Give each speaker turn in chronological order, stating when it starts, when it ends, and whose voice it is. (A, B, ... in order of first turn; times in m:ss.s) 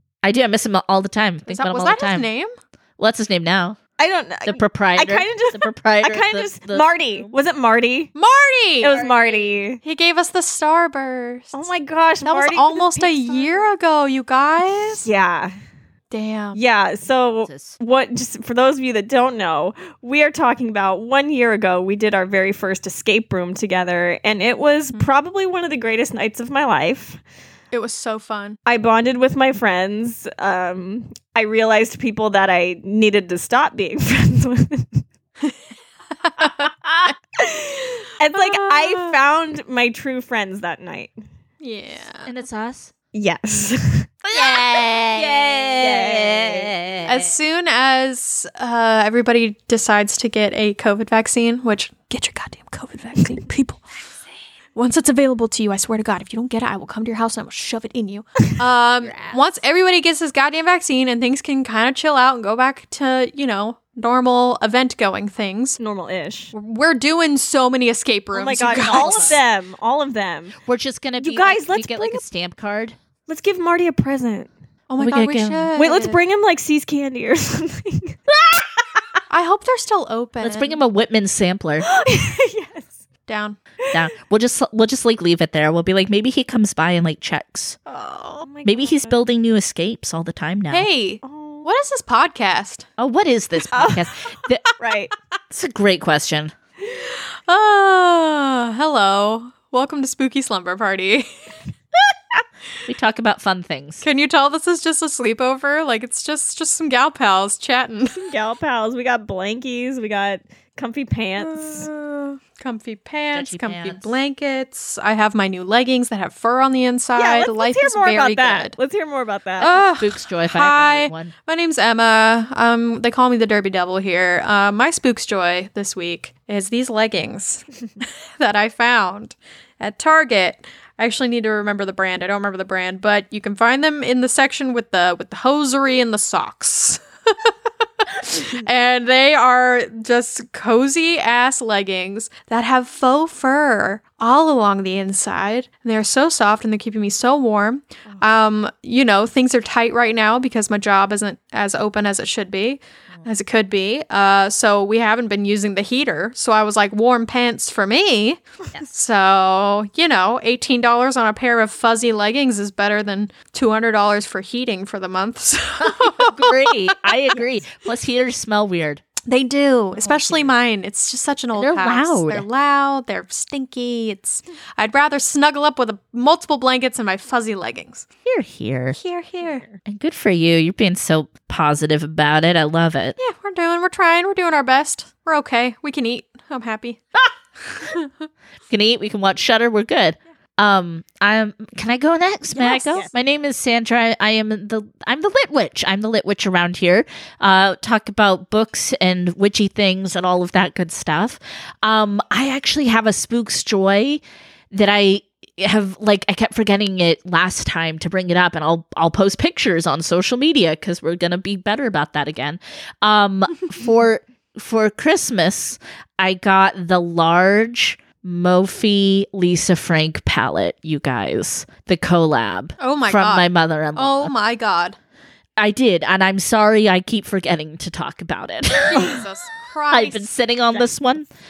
0:00.2-0:02.3 A
0:01.5-0:02.5 B
0:03.0-0:03.8 A
0:04.0-0:08.1 C
0:04.4-0:07.3 A
0:08.1-0:09.0 B
0:08.8-0:09.8 C
0:08.9-0:09.6 A
0:09.8-0:11.6 B
0:11.5-0:13.7 C
0:12.2-0:15.1 B
0:15.0-0:15.5 C
0:16.1-0:16.6 B
0:16.5-0:27.2 C
0:17.4-0:17.8 A
0:27.7-0:28.6 B
0:28.6-0:35.0 C
0:36.2-0:37.1 B
0:36.4-0:37.1 A
0:37.4-0:41.1 C
0:38.3-0:39.2 B
0:41.6-0:42.3 B
0:42.2-0:42.9 A
0:43.1-0:46.8 C
0:44.2-0:47.4 A
0:47.0-0:53.8 B
0:54.7-1:05.8 B
0:59.0-0:59.4 A
1:05.8-1:06.5 C
1:06.5-1:09.4 B
1:08.3-1:10.6 C
1:08.8-1:09.4 A
1:10.6-1:13.0 A
1:11.2-1:12.2 C
1:13.3-1:14.5 C
1:14.9-1:16.2 B
1:15.0-1:15.7 A
1:15.8-1:18.2 C
1:19.3-1:20.8 B
1:20.4-1:21.9 A
1:21.8-1:23.0 C
1:23.3-1:23.6 B
1:23.9-1:27.8 A
1:27.9-1:29.2 C
1:28.6-1:30.9 A
1:30.7-1:32.8 B
1:31.2-1:31.7 C
1:33.0-1:34.6 A
1:33.7-1:34.1 C
1:34.8-1:35.1 C
1:35.5-1:36.5 A
1:37.4-1:41.3 B
1:42.8-1:44.0 A
1:44.0-1:48.2 B
1:48.1-1:51.9 C
1:51.4-1:58.8 B
1:53.3-1:54.2 A
1:57.1-1:59.9 C
1:59.6-2:46.8 B
2:00.0-2:01.3 A
2:45.8-2:49.0 A
2:49.3-2:58.1 B
2:50.0-2:50.4 A
2:51.5-2:52.5 A
2:58.2-2:59.0 A
2:58.9-2:59.6 B
2:59.4-2:59.8 C
2:59.8-3:03.2 A
3:03.2-3:07.0 B
3:07.7-3:08.1 B
3:08.7-3:44.3 A
3:12.6-3:13.0 B
3:42.8-3:45.0 B
3:45.6-3:49.2 A
3:48.8-3:50.9 B
3:49.9-3:51.3 A